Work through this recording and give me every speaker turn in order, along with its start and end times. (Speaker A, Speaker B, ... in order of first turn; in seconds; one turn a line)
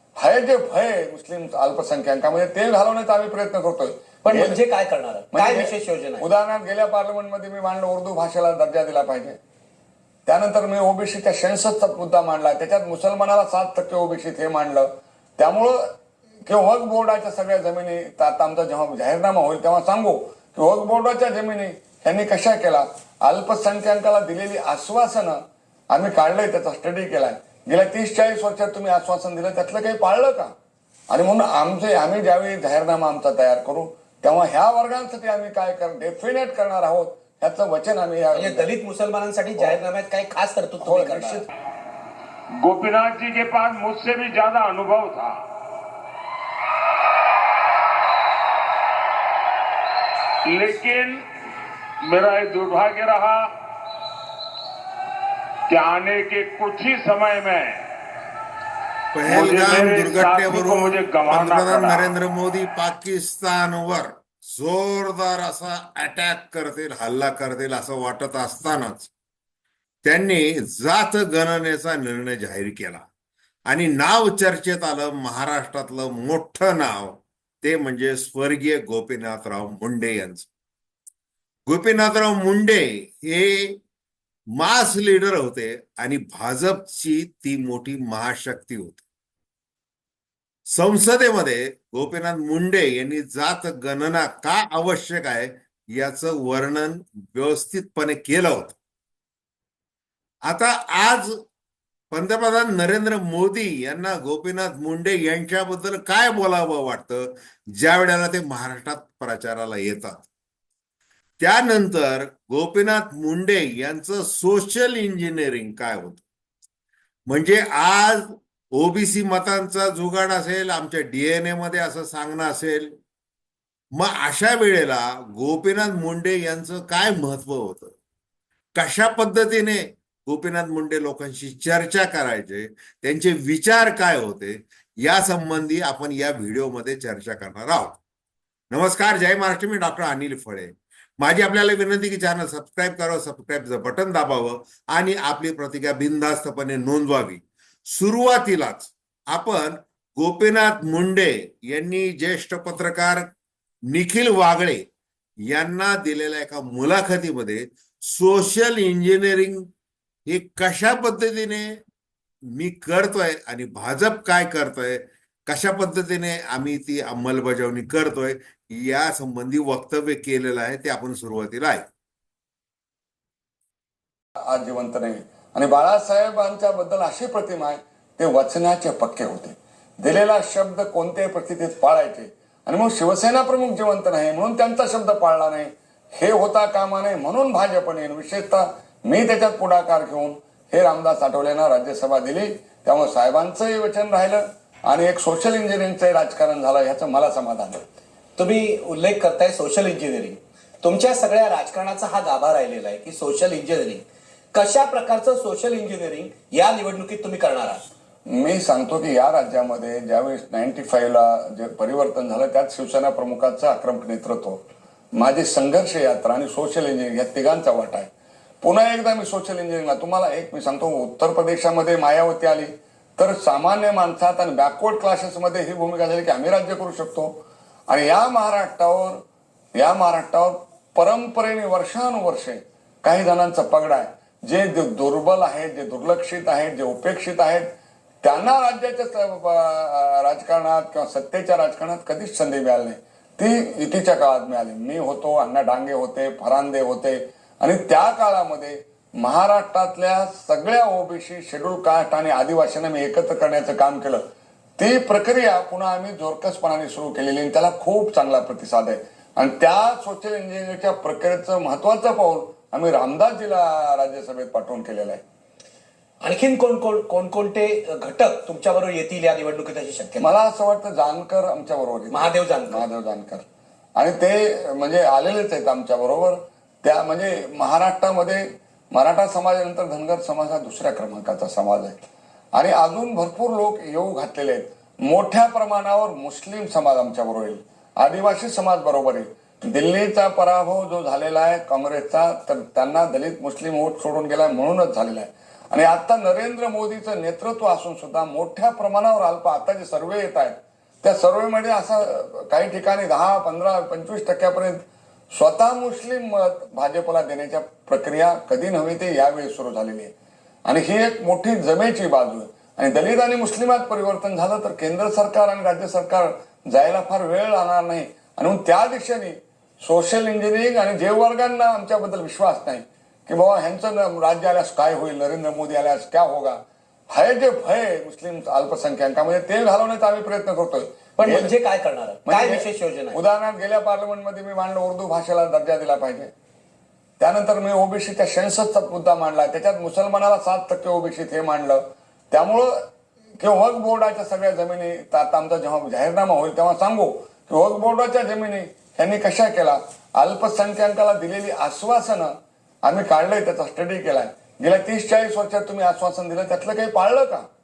Speaker A: 0.2-4.6
Speaker B: 4.2-6.2
Speaker A: 5.3-9.4
Speaker A: 10.2-15.8
Speaker A: 16.4-25.4
Speaker A: 25.9-30.5
Speaker A: 31.1-38.7
Speaker B: 38.3-41.4
Speaker A: 40.8-41.4
Speaker C: 42.6-45.4
Speaker C: 50.5-51.2
Speaker C: 52.0-53.5
Speaker C: 55.7-57.8
Speaker D: 59.1-69.1
Speaker C: 59.2-62.1
Speaker D: 70.0-73.0
Speaker D: 73.7-80.5
Speaker D: 81.7-83.8
Speaker D: 84.6-89.0
Speaker D: 90.7-98.8
Speaker D: 100.5-101.4
Speaker D: 102.1-110.2
Speaker D: 111.4-116.2
Speaker D: 117.3-122.9
Speaker D: 124.0-127.9
Speaker D: 128.7-138.0
Speaker D: 138.7-153.3
Speaker D: 153.9-154.8
Speaker D: 155.5-159.7
Speaker D: 160.3-161.8
Speaker D: 162.5-171.9
Speaker A: 174.5-197.8
Speaker B: 198.4-207.8
Speaker A: 208.3-214.6
Speaker A: 215.1-218.1
Speaker A: 218.6-227.3
Speaker A: 227.9-229.2
Speaker A: 229.8-237.7
Speaker A: 238.2-254.2
Speaker A: 254.8-265.2
Speaker B: 266.2-270.2
Speaker A: 270.2-273.4
Speaker B: 272.1-272.8
Speaker A: 273.9-310.1
Speaker A: 310.6-326.6
Speaker A: 327.1-331.5
Speaker B: 331.2-333.2
Speaker A: 332.3-336.3
Speaker A: 337.2-342.7
Speaker A: 343.4-352.3
Speaker A: 352.8-357.5